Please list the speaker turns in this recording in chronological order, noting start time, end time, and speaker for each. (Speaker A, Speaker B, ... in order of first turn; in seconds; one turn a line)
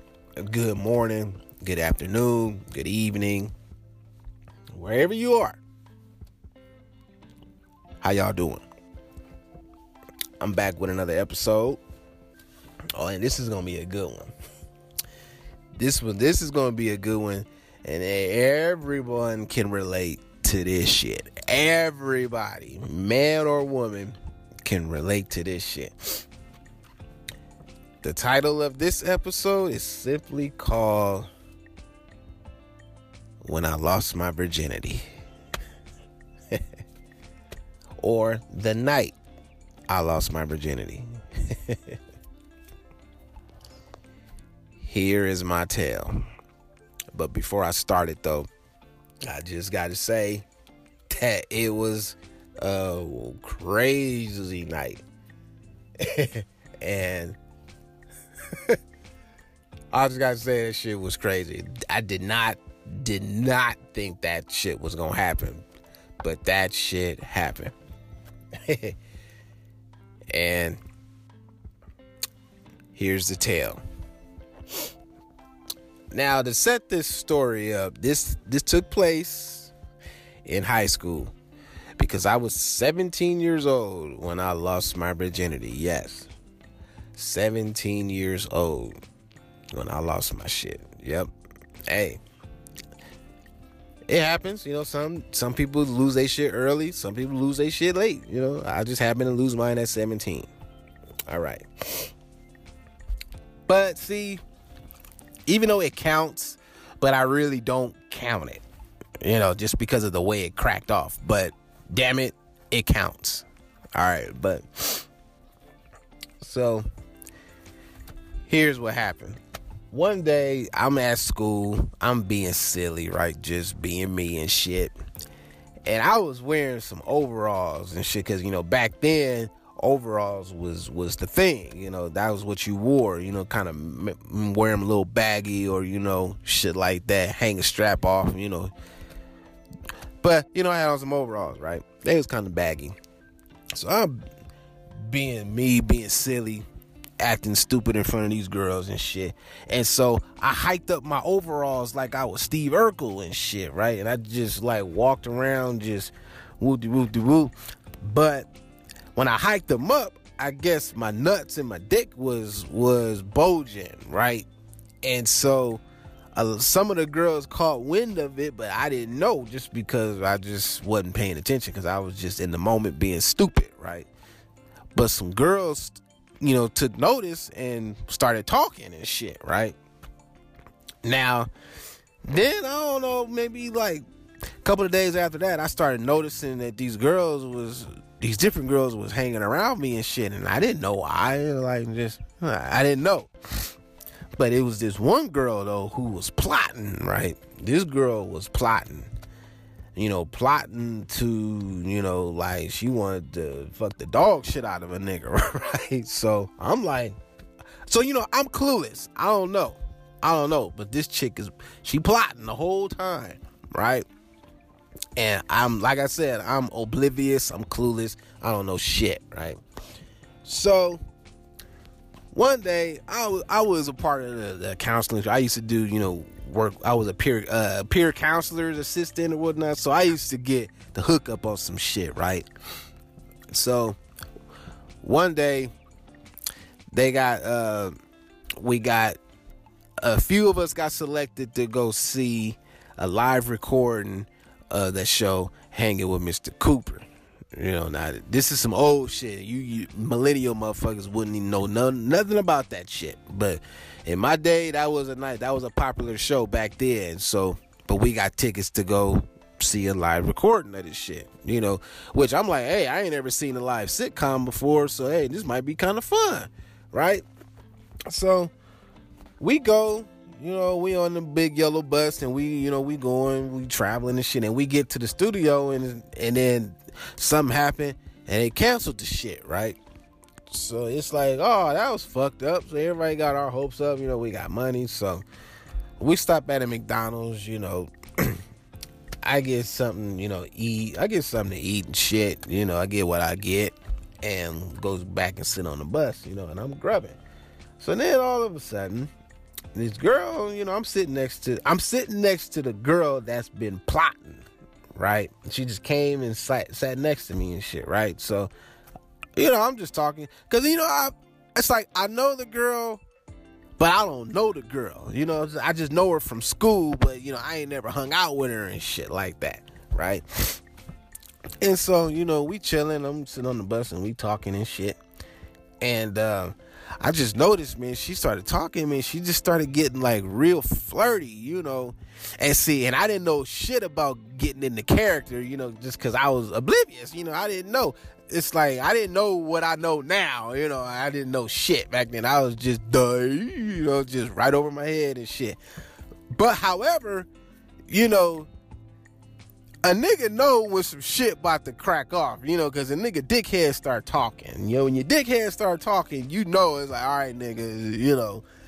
Speaker A: 0.4-3.5
Speaker A: 4.7-5.6
Speaker A: 8.0-8.6
Speaker A: 10.4-11.8
Speaker A: 12.9-14.3
Speaker A: 15.8-26.2
Speaker A: 28.0-31.3
Speaker A: 33.4-35.0
Speaker A: 38.0-39.2
Speaker A: 39.9-42.0
Speaker A: 44.8-46.2
Speaker A: 47.1-48.5
Speaker A: 49.2-50.5
Speaker A: 51.1-55.0
Speaker A: 56.0-57.4
Speaker A: 58.5-58.8
Speaker A: 59.9-65.6
Speaker A: 66.2-67.7
Speaker A: 68.6-69.0
Speaker A: 70.3-70.8
Speaker A: 72.9-73.8
Speaker A: 76.1-79.7
Speaker A: 80.4-81.3
Speaker A: 82.0-86.3
Speaker A: 87.1-89.0
Speaker A: 89.7-91.3
Speaker A: 91.9-92.2
Speaker A: 94.1-100.5
Speaker A: 101.3-102.1
Speaker A: 103.7-104.4
Speaker A: 105.5-108.6
Speaker A: 109.2-115.0
Speaker A: 116.4-116.8
Speaker A: 118.5-119.4
Speaker A: 119.9-124.9
Speaker A: 125.8-138.7
Speaker A: 140.2-143.0
Speaker A: 143.7-144.2
Speaker A: 145.0-146.7
Speaker A: 147.2-158.5
Speaker A: 159.1-164.5
Speaker A: 165.0-165.8
Speaker A: 166.3-174.1
Speaker A: 174.9-179.8
Speaker A: 181.0-181.5
Speaker A: 182.3-184.0
Speaker A: 184.6-193.3
Speaker A: 194.4-199.1
Speaker A: 199.9-207.2
Speaker A: 207.8-214.1
Speaker A: 215.2-219.6
Speaker A: 220.4-221.0
Speaker A: 222.3-232.5
Speaker A: 233.5-234.0
Speaker A: 235.0-235.7
Speaker A: 236.9-237.9
Speaker A: 238.6-239.2
Speaker A: 240.0-267.2
Speaker A: 268.1-268.5
Speaker A: 269.4-279.8
Speaker A: 280.5-285.2
Speaker A: 286.0-288.4
Speaker A: 289.2-297.2
Speaker A: 297.8-299.1
Speaker A: 299.7-308.5
Speaker A: 309.4-313.0
Speaker A: 313.8-320.6
Speaker A: 321.6-325.0
Speaker A: 325.8-345.6
Speaker A: 346.3-347.3
Speaker A: 347.9-348.5
Speaker A: 349.8-358.4